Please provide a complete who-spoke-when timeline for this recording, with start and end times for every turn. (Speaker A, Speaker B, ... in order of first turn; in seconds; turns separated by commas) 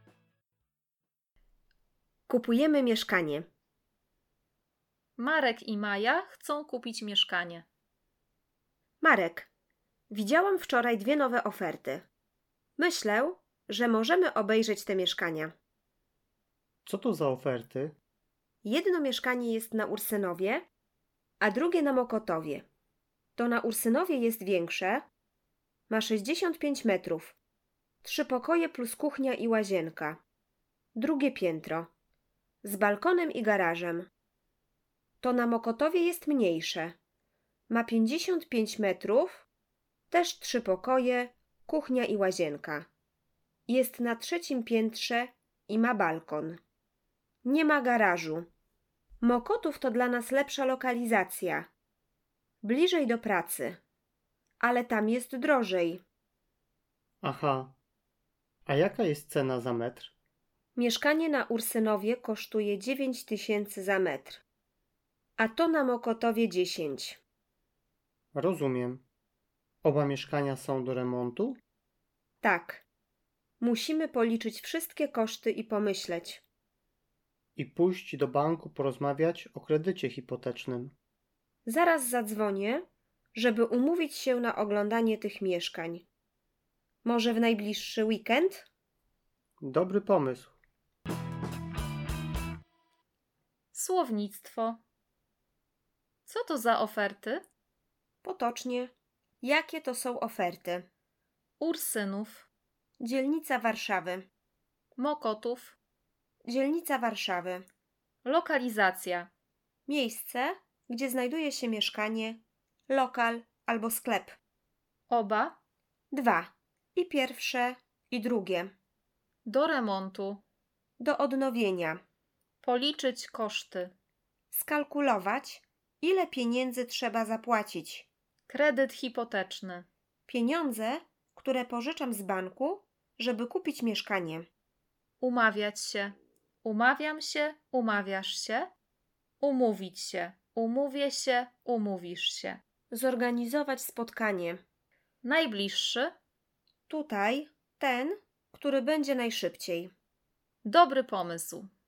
Speaker A: 2.3-3.5, Speaker B: 5.2-7.7, Speaker A: 9.0-9.5, Speaker A: 10.1-12.1, Speaker A: 12.8-15.5, Speaker C: 16.8-18.0, Speaker A: 18.6-20.7, Speaker A: 21.4-22.6, Speaker A: 23.4-25.0, Speaker A: 25.9-27.4, Speaker A: 28.0-30.2, Speaker A: 30.9-31.9, Speaker A: 32.6-34.1, Speaker A: 35.2-37.0, Speaker A: 37.7-39.5, Speaker A: 40.1-42.9, Speaker A: 43.7-46.6, Speaker A: 47.4-48.5, Speaker A: 49.2-51.7, Speaker A: 52.6-53.8, Speaker A: 54.6-56.0, Speaker C: 57.2-57.8, Speaker C: 58.7-60.1, Speaker A: 60.8-64.4, Speaker A: 65.4-67.2, Speaker C: 68.3-69.0, Speaker C: 69.8-71.6, Speaker A: 72.4-72.8, Speaker A: 73.6-76.4, Speaker C: 77.5-80.9, Speaker A: 81.7-82.8, Speaker A: 83.4-86.0, Speaker A: 87.0-88.7, Speaker C: 89.6-90.5, Speaker B: 93.7-94.8, Speaker B: 96.2-97.4, Speaker A: 98.2-100.9, Speaker B: 101.6-102.5, Speaker A: 103.0-104.2, Speaker B: 105.0-105.8, Speaker A: 106.5-107.6, Speaker B: 108.2-109.3, Speaker A: 109.9-114.4, Speaker B: 115.1-115.6, Speaker A: 116.1-118.7, Speaker B: 119.5-120.4, Speaker A: 121.0-122.0, Speaker B: 122.6-123.9, Speaker A: 124.5-128.1, Speaker B: 128.5-129.8, Speaker A: 130.3-134.5, Speaker B: 135.2-138.7, Speaker B: 139.4-142.6, Speaker A: 142.9-144.6, Speaker B: 145.2-146.1, Speaker A: 146.9-149.9, Speaker B: 150.7-151.7